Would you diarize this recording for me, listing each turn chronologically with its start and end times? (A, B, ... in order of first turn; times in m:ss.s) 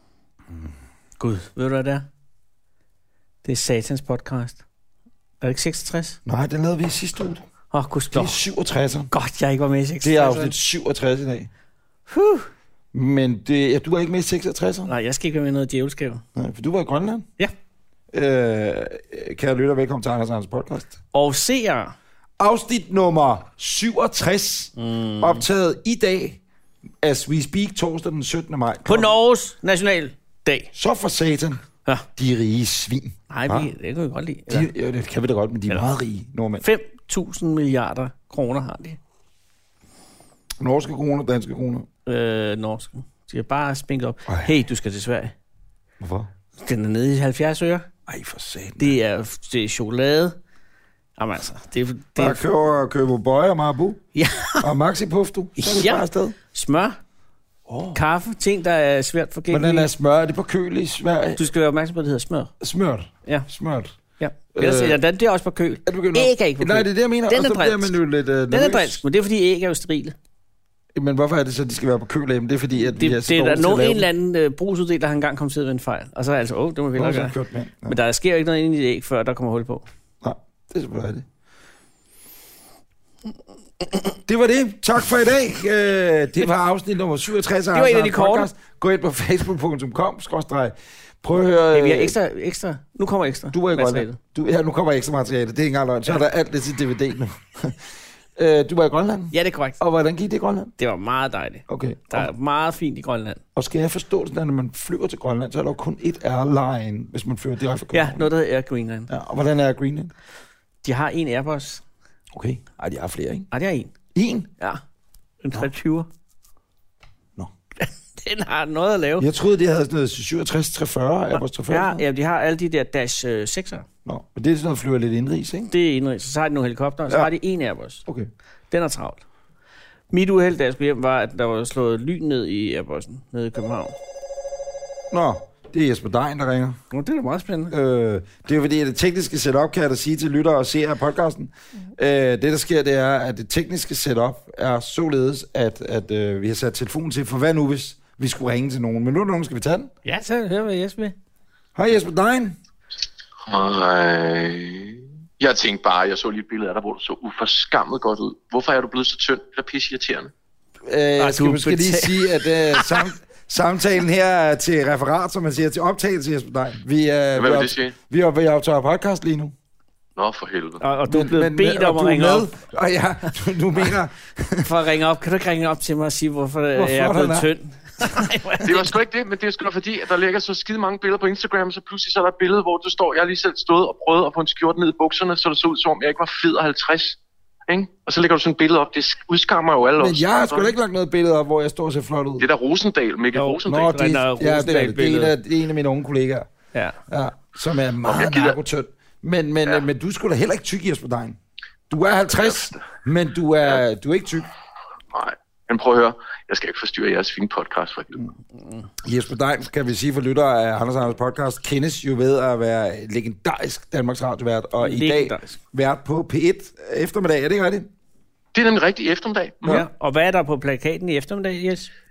0:01.2-0:02.0 A
0:03.4-0:04.6 A
0:05.4-0:06.2 A
0:06.2-0:07.4 B
0:07.7-0:08.4 A
0:08.1-0:09.1 B
0:09.1-0:10.5 A
0:10.0-0:11.5 B
0:12.1-0:12.5 A
0:12.9-0:14.9 B
0:14.8-0:16.2 A
0:16.3-0:17.3 B
0:18.1-0:21.0 B
0:21.1-0:21.9 A
0:22.4-0:26.4 B
0:24.8-0:25.4 A
0:27.0-0:29.1 B
0:28.8-0:30.7 A
0:30.7-0:31.6 B
0:32.2-0:33.7 B
0:33.3-0:34.7 A
0:34.5-0:36.6 B
0:36.6-0:39.0 A
0:40.6-0:41.9 B
0:42.0-0:45.3 A
0:44.3-0:44.5 B
0:46.0-0:46.3 B
0:46.6-0:47.9 A
0:48.1-0:49.0 B
0:48.8-0:50.4 A
0:51.2-0:52.4 A
0:52.2-0:54.0 B
0:54.1-0:54.7 A
0:54.6-0:56.3 B
0:55.6-0:57.0 A
0:57.7-0:58.0 B
0:57.9-0:59.9 A
0:59.5-1:01.4 B
1:01.4-1:02.5 A
1:02.6-1:03.9 B
1:04.2-1:08.0 A
1:04.5-1:05.0 B
1:05.8-1:09.0 B
1:08.5-1:10.1 A
1:10.9-1:14.1 B
1:12.9-1:19.8 A
1:16.9-1:18.0 B
1:20.2-1:21.2 B
1:24.2-1:32.2 B
1:27.7-1:28.5 A
1:31.7-1:34.2 A
1:33.5-1:37.8 B
1:38.3-1:40.7 B
1:39.3-1:39.8 A
1:40.8-1:43.4 A
1:41.7-1:42.3 B
1:43.6-1:48.3 B
1:47.9-1:49.1 A
1:49.1-1:50.1 B
1:50.8-1:51.8 A
1:52.3-1:53.5 B
1:53.5-1:53.9 A
1:54.1-1:54.5 B
1:55.4-1:56.1 A
1:57.8-1:59.3 A
1:59.2-2:02.0 B
2:01.7-2:03.8 A
2:04.0-2:05.7 B
2:05.7-2:08.0 A
2:08.0-2:08.3 B
2:08.7-2:09.2 A
2:10.1-2:13.9 A
2:15.1-2:16.8 B
2:16.9-2:17.7 A
2:17.7-2:29.9 B
2:30.0-2:31.1 A
2:31.7-2:32.6 B
2:33.4-2:40.3 C
2:40.8-2:49.5 B
2:41.2-2:43.0 A
2:47.3-2:48.0 C
2:50.2-2:50.8 C
2:50.8-2:52.5 A
2:51.1-2:54.7 B
2:54.6-2:58.9 A
2:56.7-2:57.5 B
2:58.6-3:10.7 C
3:10.0-3:12.5 B
3:12.4-3:13.9 C
3:13.4-3:15.3 A
3:13.7-3:16.5 B
3:17.1-3:21.4 B
3:18.0-3:18.6 C
3:21.9-3:24.5 B
3:22.3-3:22.8 C
3:25.1-3:28.2 C
3:28.6-3:28.9 A
3:29.0-3:37.9 B
3:34.8-3:35.6 A
3:38.5-3:39.8 C
3:39.6-3:41.9 A